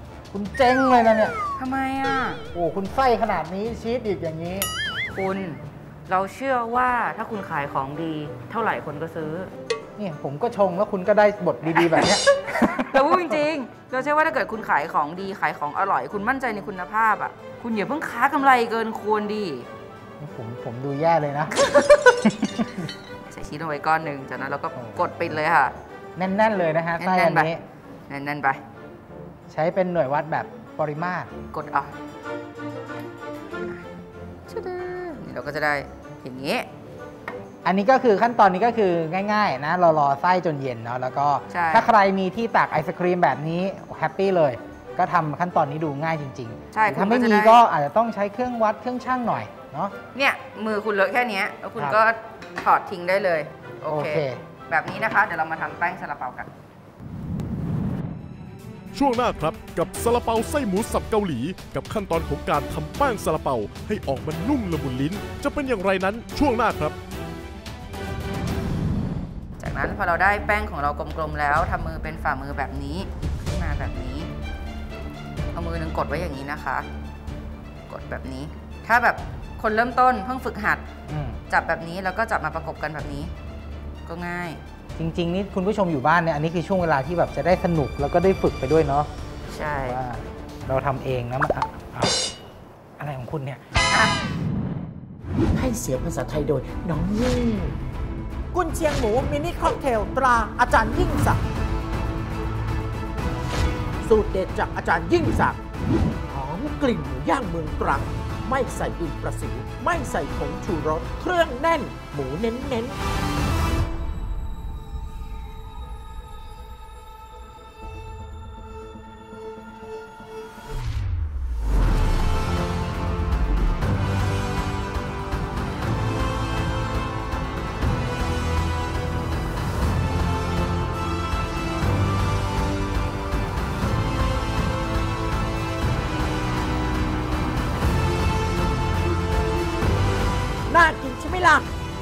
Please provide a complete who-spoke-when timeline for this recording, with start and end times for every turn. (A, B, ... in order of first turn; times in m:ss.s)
0:00.3-0:01.4 A
0:01.6-0:02.4 B
0:02.5-0:04.7 A
0:05.1-0:09.5 B
0:10.0-0:13.4 A
0:11.8-0:19.7 B
0:20.2-0:21.6 A
0:21.5-0:22.3 B
0:22.2-0:22.9 A
0:23.2-0:25.7 B
0:24.7-0:25.4 A
0:26.2-0:27.6 A
0:27.0-0:27.5 B
0:28.1-0:28.6 B
0:29.5-0:31.3 A
0:31.5-0:31.9 B
0:33.6-0:33.8 B
0:34.5-0:36.7 B
0:37.6-0:49.9 A
0:41.5-0:41.9 B
0:46.7-0:47.6 B
0:50.1-0:56.5 B
0:53.8-0:54.4 A
0:58.9-1:07.0 C
1:09.6-1:14.3 B
1:15.5-1:16.8 B
1:17.9-1:20.8 B
1:21.1-1:21.4 A
1:21.5-1:23.3 B
1:24.0-1:24.6 B
1:25.0-1:29.1 A
1:29.5-1:30.0 B
1:29.9-1:32.2 A
1:33.0-1:33.6 A
1:33.9-1:34.2 B
1:35.5-1:37.7 D
1:38.5-1:41.4 D
1:44.0-1:45.6 D
1:46.3-1:53.0 D
2:20.7-2:21.7 D